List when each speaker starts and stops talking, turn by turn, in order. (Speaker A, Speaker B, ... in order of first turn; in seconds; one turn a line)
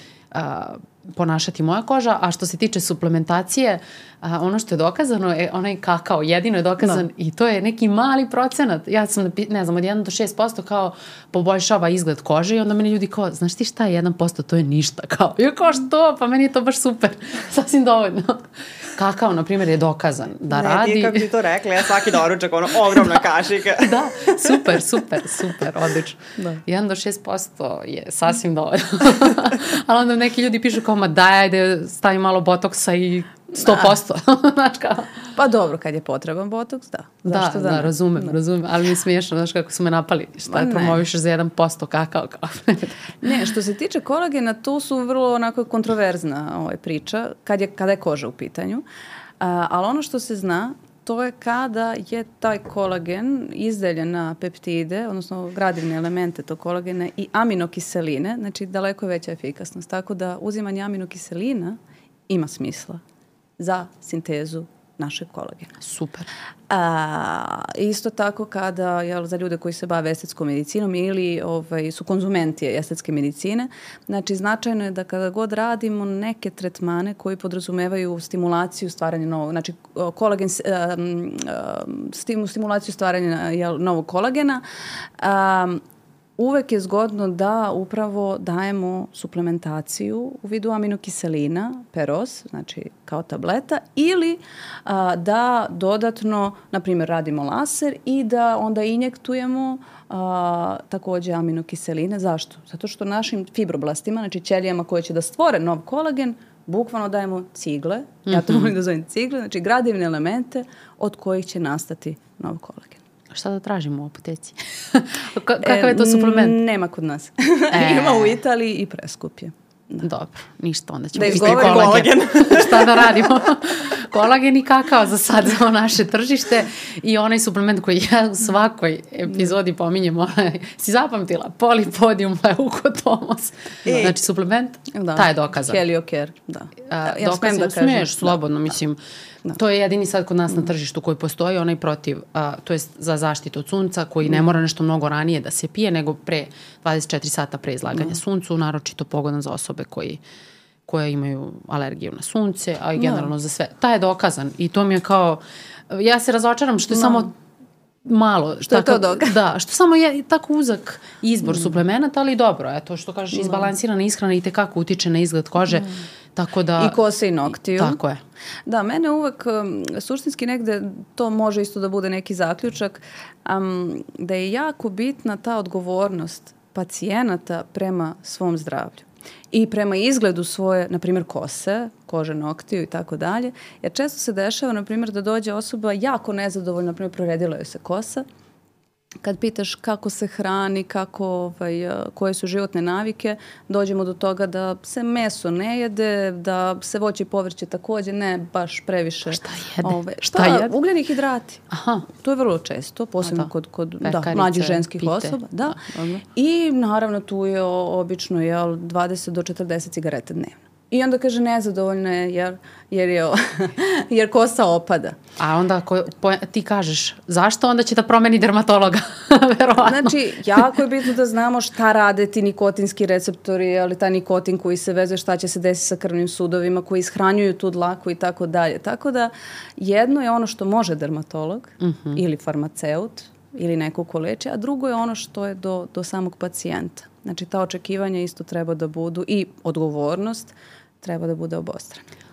Speaker A: 0.3-21.3
Speaker B: 20.5-24.6
Speaker A: 23.8-35.2
Speaker C: 33.6-34.0
Speaker C: 35.4-38.4
Speaker A: 37.3-43.1
Speaker C: 40.5-41.0
Speaker C: 43.2-48.8
Speaker C: 49.4-61.8
Speaker C: 62.3-63.0
Speaker C: 63.6-65.8
Speaker A: 65.8-66.3
Speaker C: 66.7-84.6
Speaker C: 85.2-85.8
Speaker C: 86.4-113.0
Speaker A: 108.3-108.7
Speaker A: 113.3-116.6
Speaker C: 115.6-120.0
Speaker A: 117.7-118.4
Speaker A: 120.0-135.8
Speaker C: 121.2-122.7
Speaker B: 121.6-123.1
Speaker B: 133.9-134.2
Speaker C: 134.9-138.4
Speaker A: 136.9-139.0
Speaker A: 139.5-150.2
Speaker A: 150.9-157.3
Speaker C: 153.0-153.3
Speaker C: 156.9-157.3
Speaker A: 158.1-167.0
Speaker C: 158.6-159.4
Speaker C: 163.3-163.7
Speaker C: 166.8-168.0
Speaker A: 167.8-168.2
Speaker C: 168.7-188.2
Speaker C: 189.2-215.2
Speaker A: 199.3-200.7
Speaker A: 201.7-202.1
Speaker A: 204.0-206.2
Speaker A: 215.4-220.7
Speaker C: 219.8-242.1
Speaker A: 231.8-232.2